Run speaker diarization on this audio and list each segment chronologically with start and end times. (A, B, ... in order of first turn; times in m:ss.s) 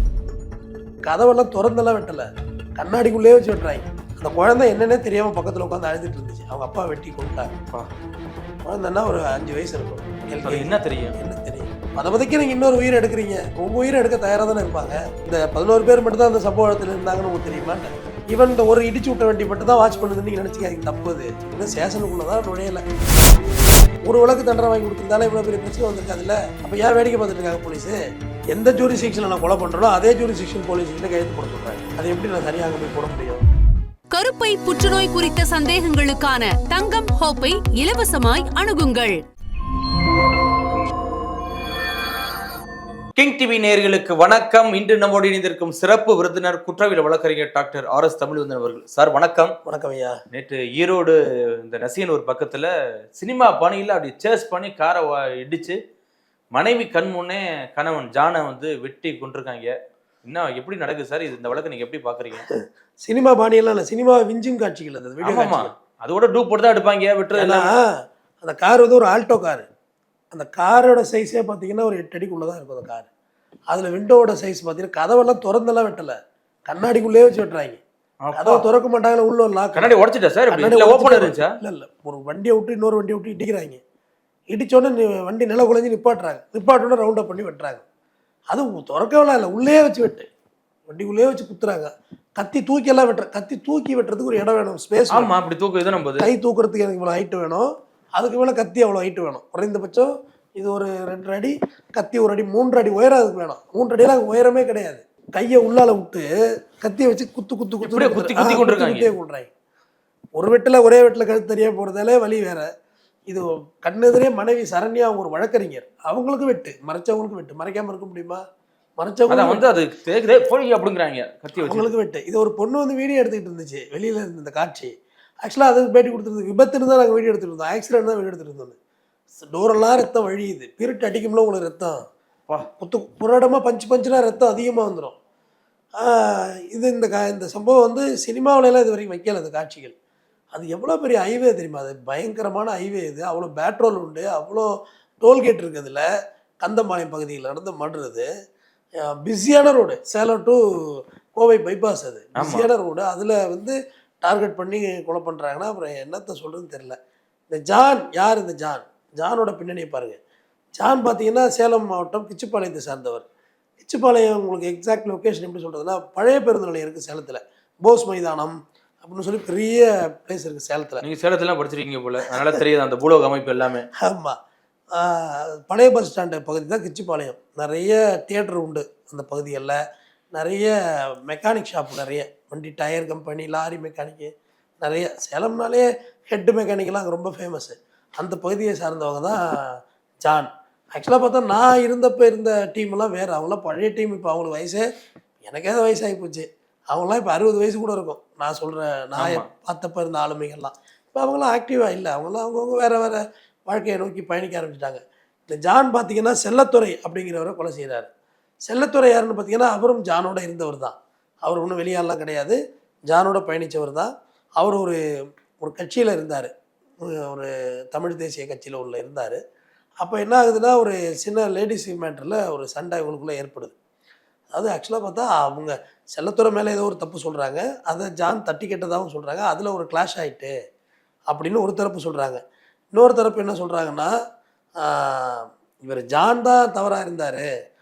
0:01.0-0:07.5 A
0:08.6-0:22.8 A
0:10.4-0:11.1 B
0:24.0-0:28.0 A
0:28.5-0:33.4 A
0:34.1-0:39.2 C
0:43.2-0:49.5 B
0:49.6-0:50.2 A
0:50.3-0:55.8 B
0:56.5-1:02.4 B
1:03.0-1:05.7 A
1:05.2-1:07.7 B
1:07.4-1:09.6 A
1:10.3-1:13.1 A
1:13.7-1:17.8 A
1:18.2-1:18.7 B
1:18.3-1:19.9 A
1:19.7-1:21.6 B
1:20.5-1:23.8 A
1:24.5-1:27.8 A
1:28.5-1:30.3 A
1:30.9-1:35.3 A
1:35.1-1:36.3 B
1:36.2-1:46.2 A
1:46.8-1:49.5 A
1:47.8-1:49.1 B
1:50.4-1:52.7 A
1:53.3-1:58.4 A
1:59.0-1:59.6 A
1:59.3-2:01.9 B
2:01.6-2:08.7 A
2:09.4-2:12.0 A
2:12.8-2:15.2 A
2:16.0-2:19.9 A
2:20.5-2:26.0 A
2:26.6-2:28.3 A
2:29.0-2:37.0 A
2:32.4-2:32.7 B
2:37.5-2:40.2 A
2:40.8-2:43.2 A
2:43.8-2:51.0 A
2:51.0-2:53.9 B
2:52.3-2:52.6 A
2:54.0-2:54.4 A
2:54.9-2:59.8 A
3:00.3-3:14.8 A
3:15.4-3:28.1 A
3:19.2-3:19.5 B
3:28.7-3:35.0 A
3:35.6-3:36.5 A
3:37.0-3:39.4 A
3:40.0-3:43.7 A
3:44.5-3:50.5 A
3:51.3-3:52.4 A
3:52.9-3:54.1 A
3:54.8-3:57.5 A